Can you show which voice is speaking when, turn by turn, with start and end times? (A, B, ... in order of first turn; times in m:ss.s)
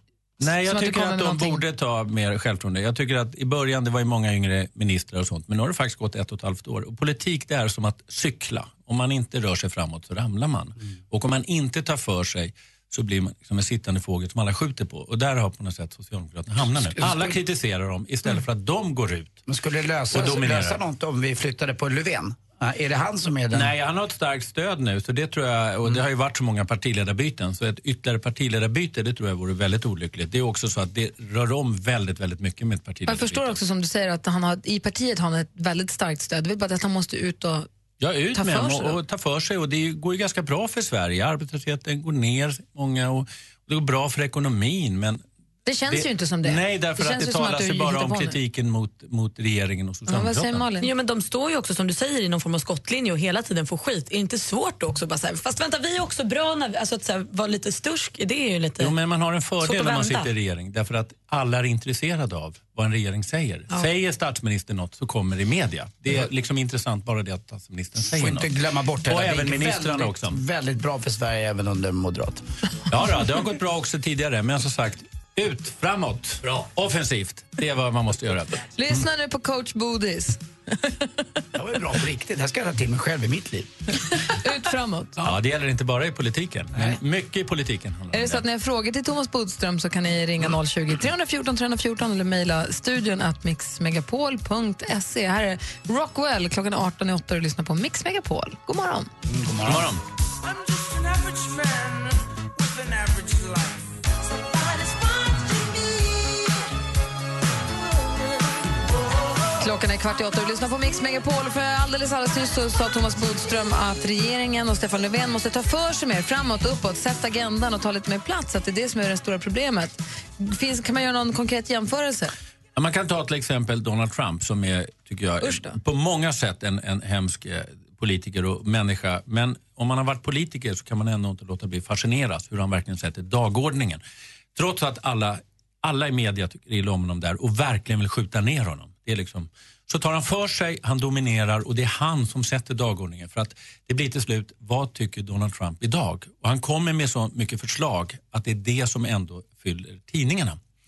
0:00.4-0:19.4 A
0:00.4-0:01.6 B
0:17.0-0:17.4 C
0:19.5-0:23.7 C
0:20.1-0:20.8 A
0:23.5-0:33.6 A
0:33.1-0:37.7 B
0:38.0-0:45.2 A
0:38.3-0:39.0 B
0:45.6-0:48.4 B
0:45.9-0:50.6 A
0:50.1-0:50.9 B
0:50.8-0:58.9 D
0:58.8-1:08.5 A
0:59.6-1:00.3 D
1:08.0-1:12.4 C
1:09.0-1:10.4 A
1:12.9-1:18.6 A
1:18.7-1:20.4 B
1:21.5-1:23.7 C
1:24.2-1:25.3 B
1:25.2-1:28.4 A
1:26.7-1:27.0 C
1:28.1-1:39.1 B
1:39.3-1:39.9 C
1:39.6-1:40.0 A
1:40.4-1:43.9 E
1:44.5-1:46.4 E
1:49.6-2:02.3 B
2:02.7-2:14.0 A
2:05.4-2:05.8 B
2:14.5-2:30.6 A